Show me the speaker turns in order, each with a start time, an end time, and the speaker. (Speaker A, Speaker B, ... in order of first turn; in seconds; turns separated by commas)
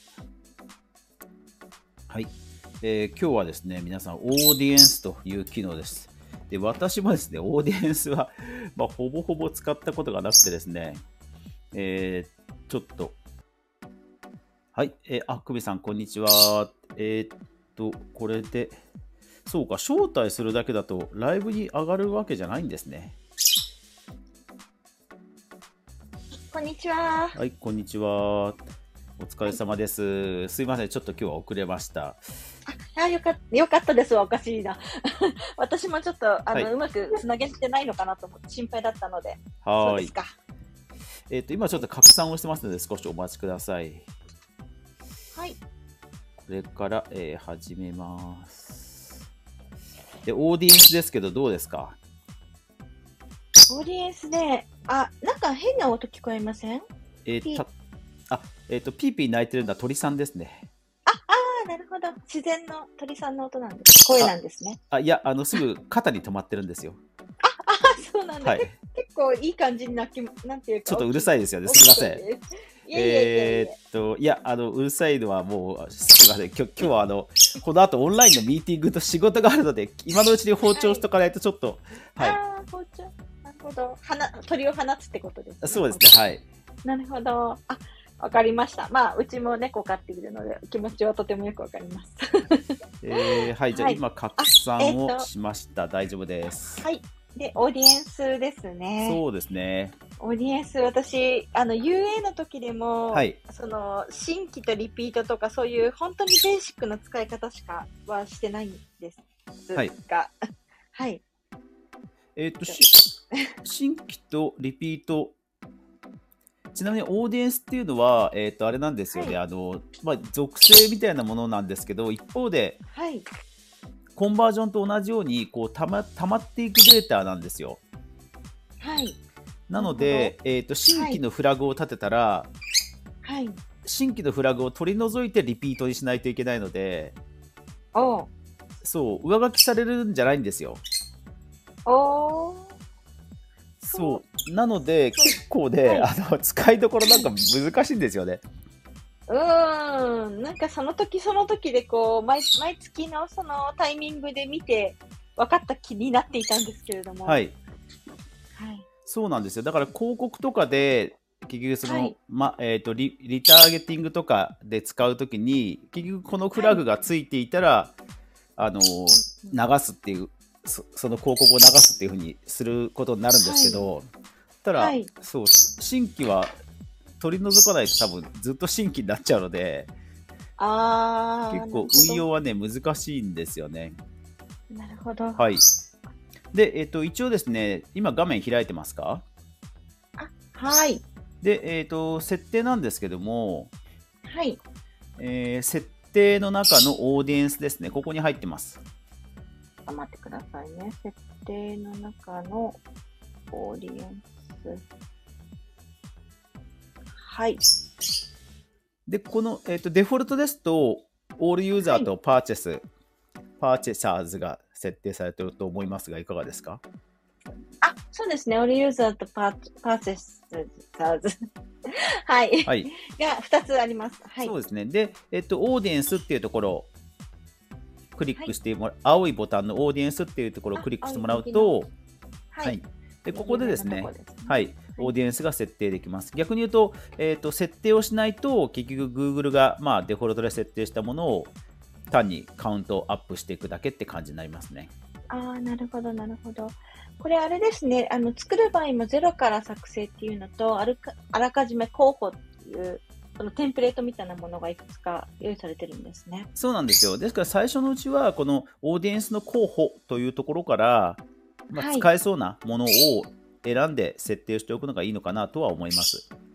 Speaker A: 2.1-11.0, Speaker A: 11.7-13.2, Speaker A: 14.7-18.8, Speaker A: 19.4-23.2, Speaker B: 26.5-27.4, Speaker A: 27.3-28.6, Speaker A: 29.2-32.2, Speaker B: 32.7-40.3, Speaker A: 39.6-40.1, Speaker A: 41.3-44.1, Speaker A: 46.4-49.1, Speaker A: 50.2-52.0, Speaker B: 53.7-56.9, Speaker A: 57.2-57.7, Speaker A: 58.3-60.7, Speaker B: 61.0-64.8, Speaker A: 64.9-67.0, Speaker B: 67.4-73.7, Speaker A: 68.4-68.7, Speaker A: 70.8-72.2, Speaker A: 72.9-82.4, Speaker B: 80.7-81.0, Speaker B: 82.2-86.0, Speaker A: 85.6-86.5, Speaker B: 86.8-95.3, Speaker A: 93.0-96.8, Speaker B: 96.8-99.2, Speaker A: 99.0-99.9, Speaker B: 100.2-110.3, Speaker A: 103.1-103.4, Speaker B: 110.9-111.2, Speaker A: 112.3-113.0, Speaker B: 112.7-113.5, Speaker A: 113.6-115.3, Speaker A: 116.7-122.8, Speaker B: 119.1-119.4, Speaker B: 122.9-123.3, Speaker A: 124.2-127.8, Speaker B: 128.8-129.2, Speaker A: 129.7-132.5, Speaker B: 129.8-130.3, Speaker B: 130.9-131.2, Speaker B: 133.2-133.6, Speaker A: 133.8-137.2, Speaker B: 137.9-138.3, Speaker A: 138.8-140.8, Speaker B: 141.8-142.8, Speaker A: 143.8-148.4, Speaker B: 143.9-144.2, Speaker B: 145.1-146.1, Speaker B: 149.3-157.4, Speaker A: 157.2-157.6, Speaker B: 158.5-158.9, Speaker A: 159.1-167.9, Speaker B: 161.8-162.1, Speaker B: 166.6-166.8, Speaker A: 168.6-174.1, Speaker B: 173.4-173.9, Speaker A: 174.6-176.5, Speaker B: 174.7-175.1, Speaker A: 177.2-179.9, Speaker B: 180.6-182.2, Speaker A: 181.5-184.0, Speaker B: 184.7-185.4, Speaker A: 185.4-185.6, Speaker A: 186.5-189.2, Speaker B: 190.2-191.0, Speaker A: 191.4-193.7, Speaker B: 194.2-194.6, Speaker A: 195.2-198.8, Speaker B: 199.8-202.8, Speaker B: 203.5-204.8, Speaker B: 207.2-207.6, Speaker A: 209.1-212.8, Speaker A: 213.6-216.8, Speaker B: 217.8-224.5, Speaker A: 224.4-226.9, Speaker A: 228.1-231.9, Speaker B: 230.8-231.8, Speaker B: 232.5-232.8, Speaker A: 232.6-241.5, Speaker B: 233.3-235.1, Speaker A: 242.1-244.9, Speaker B: 245.3-256.5, Speaker A: 256.6-266.2, Speaker B: 261.7-262.1